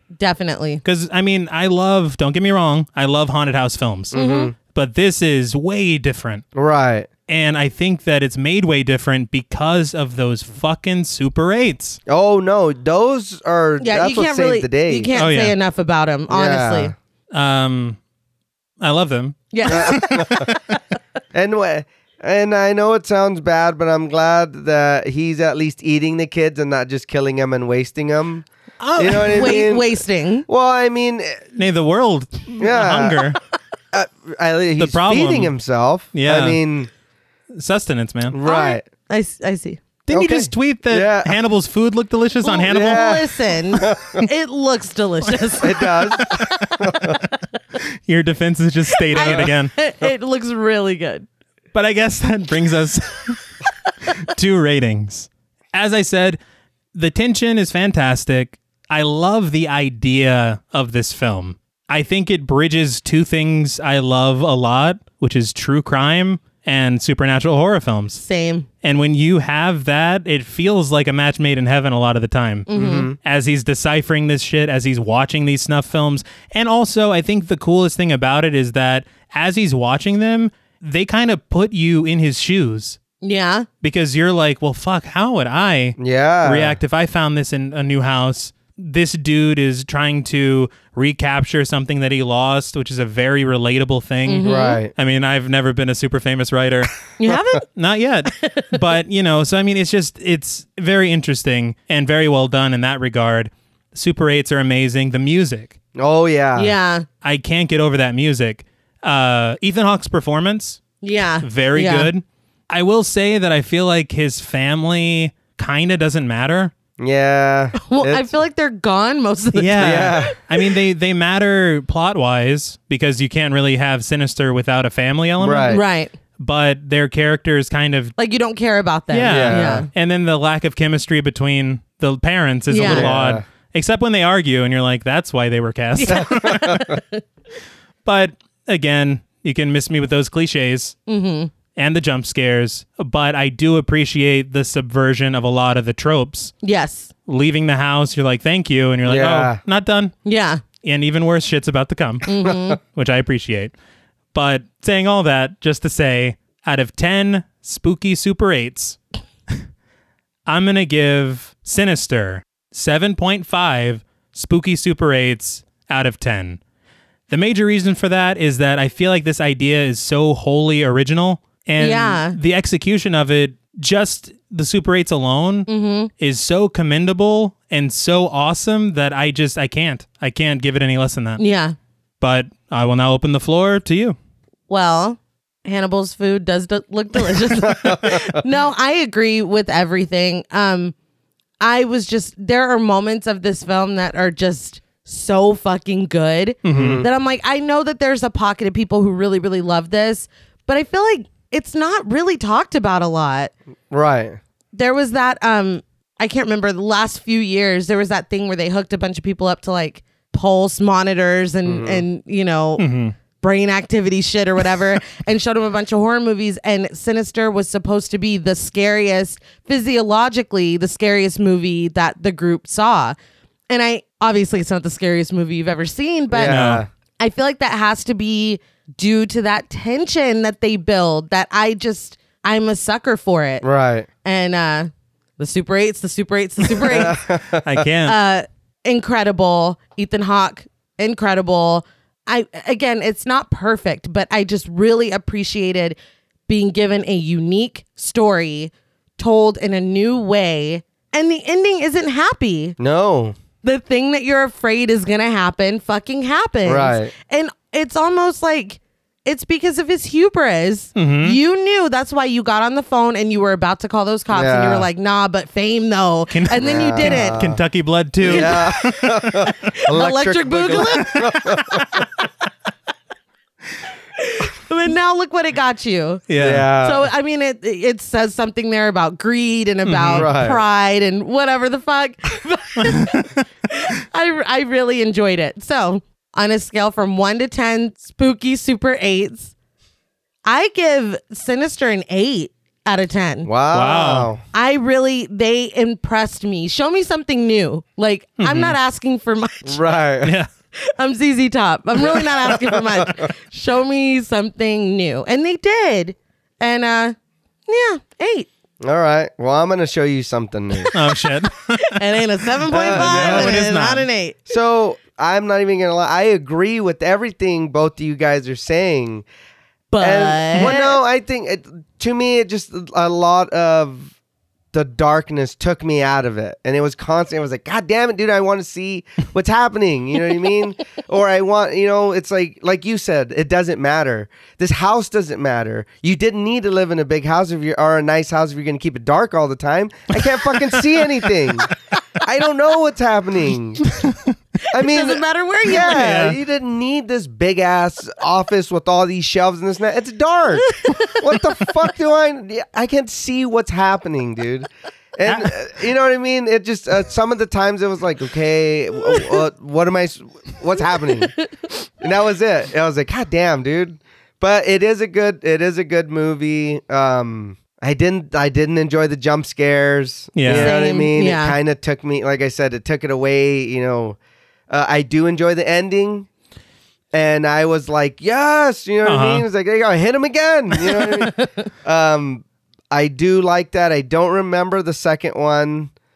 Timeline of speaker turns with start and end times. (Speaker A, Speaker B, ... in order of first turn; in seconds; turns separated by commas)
Speaker A: 0.2-0.8, Speaker B: 0.8-6.4, Speaker C: 4.1-4.5, Speaker A: 4.1-4.5, Speaker C: 6.5-7.1, Speaker B: 7.3-12.0, Speaker C: 12.1-15.1, Speaker A: 13.8-16.9, Speaker B: 15.2-15.6, Speaker C: 16.3-16.9, Speaker B: 17.3-18.0, Speaker B: 18.8-20.8, Speaker A: 19.5-20.3, Speaker C: 19.7-20.5, Speaker C: 21.3-28.5, Speaker B: 28.8-29.6, Speaker C: 29.0-29.9, Speaker A: 29.2-30.5, Speaker C: 30.5-31.5, Speaker B: 31.6-33.4, Speaker C: 32.6-33.4, Speaker C: 33.9-36.9, Speaker B: 34.8-35.5, Speaker B: 36.1-36.6, Speaker B: 37.6-38.4, Speaker C: 38.3-38.9, Speaker A: 38.4-39.8, Speaker B: 40.1-43.2, Speaker C: 40.1-41.4, Speaker A: 42.4-46.7, Speaker C: 42.7-44.3, Speaker C: 45.6-47.2, Speaker B: 46.2-47.2, Speaker B: 47.8-49.7, Speaker A: 49.1-51.3, Speaker B: 51.7-53.4, Speaker B: 54.1-56.4, Speaker B: 57.0-68.2, Speaker A: 68.2-68.7, Speaker B: 68.8-83.0, Speaker A: 72.7-73.1, Speaker C: 72.7-73.2, Speaker A: 83.2-83.7, Speaker B: 83.8-97.1, Speaker C: 86.0-86.8, Speaker A: 94.3-94.8, Speaker C: 94.4-94.9, Speaker A: 97.2-97.7, Speaker B: 97.7-105.8, Speaker A: 98.3-98.8, Speaker C: 106.0-106.7, Speaker A: 106.6-107.1, Speaker B: 107.2-110.8, Speaker A: 111.0-112.1, Speaker B: 111.4-116.7, Speaker C: 117.0-118.2, Speaker A: 117.8-120.4, Speaker B: 119.5-125.8, Speaker C: 119.8-120.4, Speaker C: 125.4-125.8, Speaker A: 125.7-126.1, Speaker B: 126.4-128.1, Speaker A: 128.2-129.9, Speaker B: 129.1-136.8, Speaker C: 129.3-129.9, Speaker A: 132.7-133.1, Speaker C: 132.8-133.4, Speaker A: 135.9-137.2, Speaker C: 136.1-137.0, Speaker B: 138.1-141.0, Speaker A: 141.1-141.5, Speaker B: 141.8-146.5, Speaker A: 146.6-147.1, Speaker B: 147.3-150.2, Speaker C: 149.1-149.6, Speaker A: 150.2-150.6, Speaker B: 150.8-153.7, Speaker A: 152.2-152.8, Speaker B: 154.3-159.0, Speaker B: 160.5-166.6, Speaker B: 167.3-181.4, Speaker A: 171.8-172.4, Speaker A: 175.7-176.1, Speaker A: 181.4-181.8, Speaker B: 182.2-184.2, Speaker A: 184.7-190.9, Speaker C: 187.6-188.4, Speaker A: 191.6-203.5, Speaker B: 196.6-197.1, Speaker C: 196.7-197.1, Speaker C: 203.9-204.4, Speaker A: 204.8-212.8, Speaker C: 211.7-212.1, Speaker B: 212.8-213.2, Speaker A: 213.4-223.2, Speaker A: 223.7-226.7, Speaker C: 226.3-226.9, Speaker B: 226.4-226.8, Speaker A: 227.2-233.7, Speaker C: 233.6-234.1, Speaker A: 234.2-237.2, Speaker C: 236.8-237.7, Speaker B: 237.6-238.2, Speaker A: 238.1-246.0, Speaker A: 246.5-252.8, Speaker C: 252.8-253.3, Speaker A: 253.6-267.4, Speaker C: 256.6-257.1, Speaker B: 261.0-261.4, Speaker C: 264.3-264.9, Speaker B: 266.3-269.7, Speaker C: 266.6-267.6, Speaker C: 268.2-271.9, Speaker A: 268.3-272.1, Speaker A: 274.2-276.2, Speaker B: 276.3-276.7, Speaker C: 276.4-277.1, Speaker A: 276.8-289.5, Speaker B: 279.9-280.3, Speaker C: 280.1-280.6, Speaker B: 282.8-283.4, Speaker A: 290.5-293.5, Speaker C: 293.4-294.4, Speaker B: 293.7-294.3, Speaker A: 294.5-299.8, Speaker B: 298.4-298.8, Speaker C: 299.6-300.3, Speaker B: 300.2-300.5, Speaker A: 300.8-308.5, Speaker C: 302.0-303.3, Speaker C: 308.8-310.9, Speaker B: 310.9-314.1, Speaker A: 311.8-314.4, Speaker C: 312.7-313.7, Speaker C: 314.5-319.2, Speaker A: 319.9-321.0, Speaker C: 320.0-324.1, Speaker C: 324.7-343.8, Speaker B: 343.9-344.3, Speaker A: 344.7-346.0, Speaker C: 344.7-361.3, Speaker B: 345.8-346.4, Speaker A: 350.7-351.2, Speaker B: 355.2-355.5, Speaker C: 362.0-374.2, Speaker B: 370.4-370.7, Speaker A: 370.5-371.6, Speaker C: 374.7-376.3, Speaker C: 377.1-385.9, Speaker B: 379.1-379.4, Speaker A: 381.1-381.7